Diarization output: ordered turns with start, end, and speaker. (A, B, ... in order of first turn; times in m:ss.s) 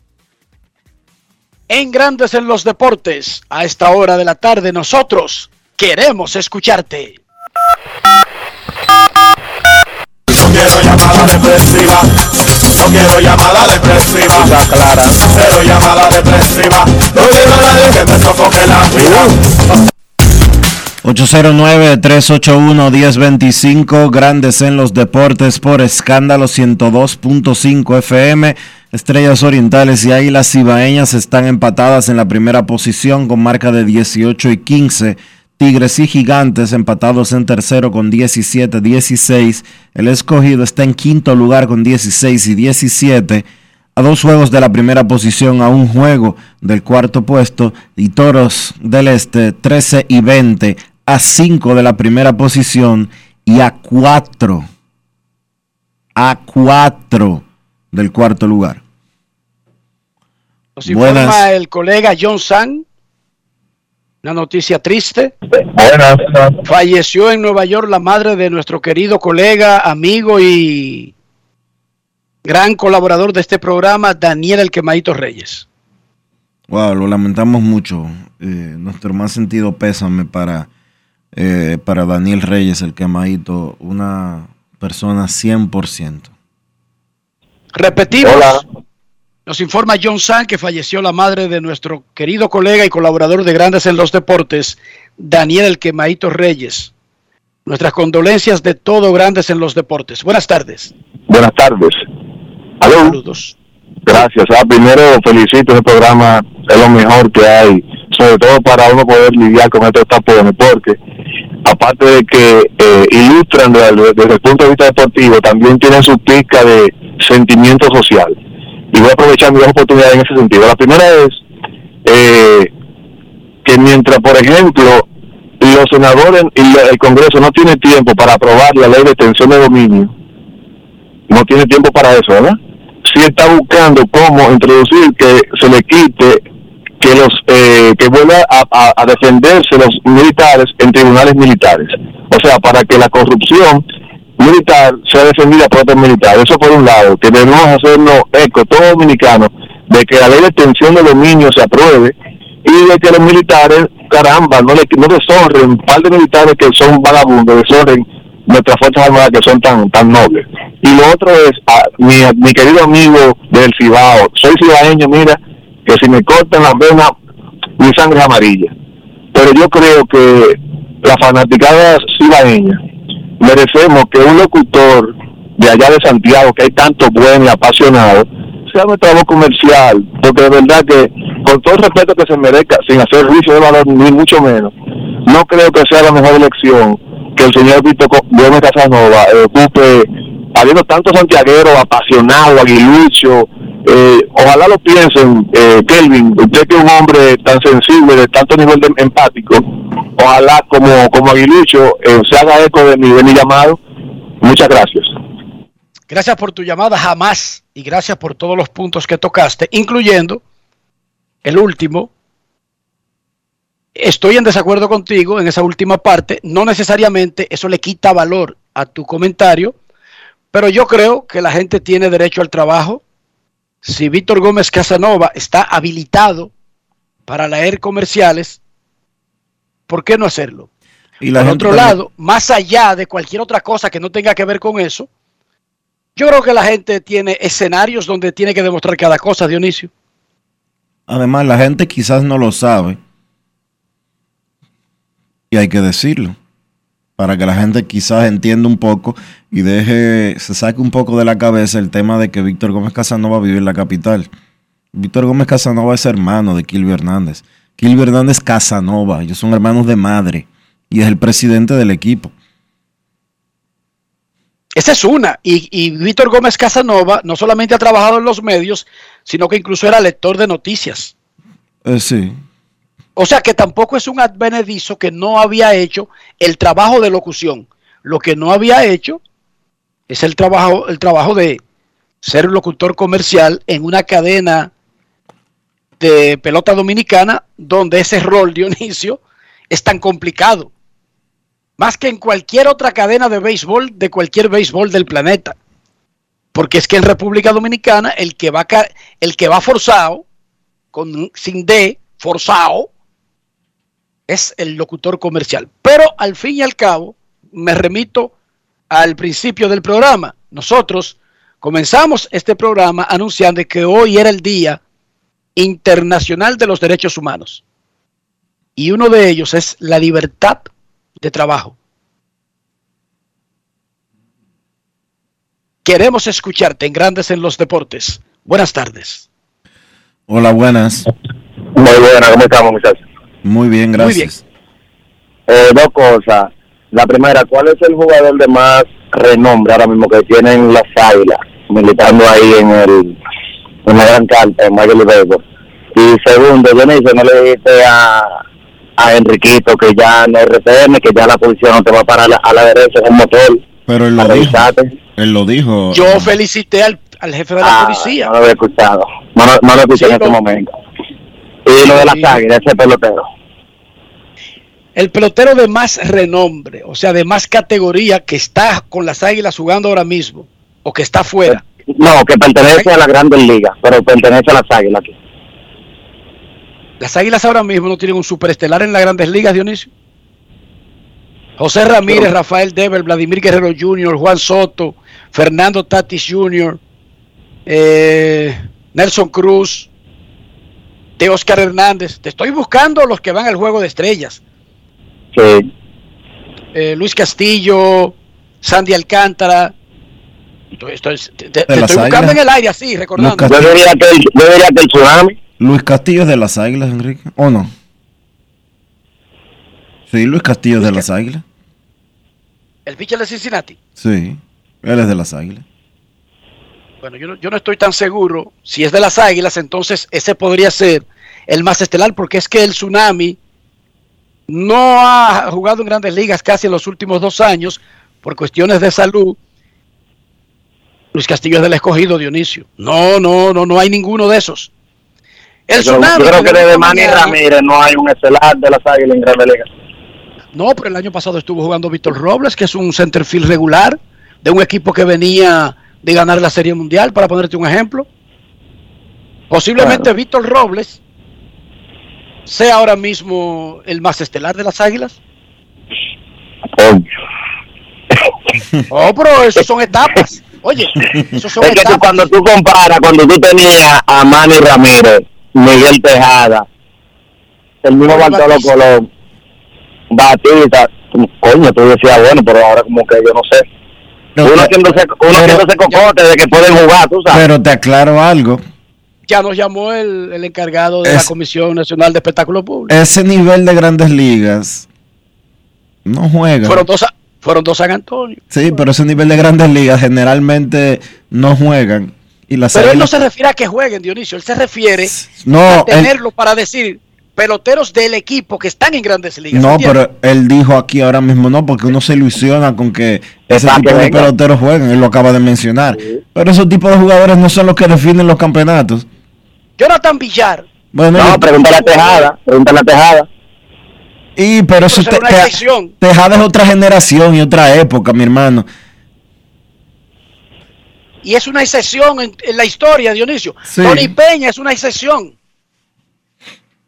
0:01.7-0:07.2 A
0:10.3-0:12.0 B
0:12.8-0:14.6 B
0:15.2-0:19.3 B
0:21.0-0:43.4 C
0:44.0-0:54.7 C
0:56.2-0:58.8 C
1:00.8-1:02.8 A
1:00.8-1:01.4 C
1:04.2-1:05.3 A
1:06.6-1:11.1 A
1:12.4-1:15.6 A
1:16.7-1:20.7 C
1:21.3-1:26.3 C
1:27.7-1:28.6 A
1:29.5-1:36.9 A
1:37.6-1:40.9 A
1:41.3-1:42.0 D
1:42.8-1:43.1 D
1:42.9-1:43.5 A
1:44.1-1:51.0 D
1:51.6-1:58.4 D
1:58.9-2:01.4 D
2:02.0-2:02.7 D
2:03.6-2:05.0 D
2:05.6-2:10.1 D
2:11.3-2:12.6 D
2:13.1-2:16.4 D
2:17.0-2:23.8 D
2:24.4-2:32.1 D
2:32.6-2:47.1 D
2:47.8-2:48.7 D
2:49.3-2:52.8 D
2:53.4-3:04.7 D
3:05.3-3:19.6 D
3:20.2-3:23.8 D
3:24.4-3:25.1 D
3:26.1-3:30.4 A
3:31.4-3:32.1 A
3:34.0-3:39.7 A
3:40.5-3:43.0 A
3:43.8-3:46.5 A
3:47.3-3:48.6 A
3:49.9-3:50.7 A
3:51.2-3:52.0 C
3:51.4-3:55.1 A
3:56.2-3:59.9 A
4:01.1-4:03.0 C
4:05.5-4:06.4 C
4:07.2-4:14.3 C
4:14.9-4:22.3 C
4:24.8-4:31.1 A
4:31.8-4:32.4 C
4:33.2-4:39.2 A
4:40.1-4:41.6 A
4:42.2-4:44.7 A
4:46.0-4:50.7 A
4:51.8-4:55.6 A
4:56.5-5:00.2 A
5:00.9-5:02.9 A
5:04.3-5:08.3 A
5:08.9-5:14.8 A
5:15.6-5:17.6 A
5:18.8-5:20.7 A
5:21.2-5:21.7 A
5:25.8-5:29.2 A
5:30.3-5:31.0 C
5:31.8-5:33.0 E
5:33.4-5:34.4 C
5:34.0-5:34.3 A
5:35.5-5:43.1 E
5:43.9-5:45.4 E
5:46.0-5:48.2 E
5:49.0-5:53.5 E
5:53.9-5:54.6 C
5:54.2-5:54.8 E
5:55.2-5:56.3 C
5:55.9-5:58.3 A
5:58.3-6:00.6 E
5:59.9-6:00.4 A
6:01.8-6:02.4 A
6:01.8-6:03.1 E
6:04.9-6:11.6 A
6:12.0-6:15.0 E
6:17.0-6:19.9 A
6:21.6-6:26.8 A
6:27.7-6:29.9 A
6:31.2-6:34.4 A
6:36.7-6:39.7 A
6:40.8-6:43.6 A
6:41.7-6:42.4 C
6:43.2-6:43.7 C
6:43.5-6:45.3 E
6:45.6-6:47.7 C
6:50.1-6:51.4 C
6:50.8-6:51.0 A
6:52.8-6:53.8 A
6:54.0-6:55.6 C
6:57.0-7:03.4 A
7:04.5-7:09.4 A
7:11.1-7:14.7 A
7:15.7-7:17.4 A
7:15.8-7:19.6 E
7:20.5-7:28.0 A
7:29.5-7:31.0 A
7:32.4-7:35.2 A
7:38.9-7:42.3 A
7:41.6-7:46.6 E
7:47.8-7:49.0 E
7:48.1-7:48.7 A
7:50.1-7:53.6 E
7:54.4-7:54.7 C
7:54.4-7:57.4 E
7:55.3-7:55.6 C
7:57.3-7:58.6 C
7:59.3-8:02.9 A
8:01.0-8:01.3 C
8:02.9-8:04.9 C
8:06.0-8:06.8 C
8:06.6-8:08.4 A
8:08.5-8:13.1 C
8:12.7-8:15.1 A
8:15.0-8:16.1 C
8:15.7-8:20.0 A
8:19.5-8:29.1 C
8:23.5-8:24.2 E
8:29.8-8:30.6 A
8:30.9-8:31.5 C
8:31.2-8:33.2 E
8:34.4-8:38.7 C
8:34.8-8:35.9 A
8:41.2-8:45.3 A
8:43.7-8:44.1 C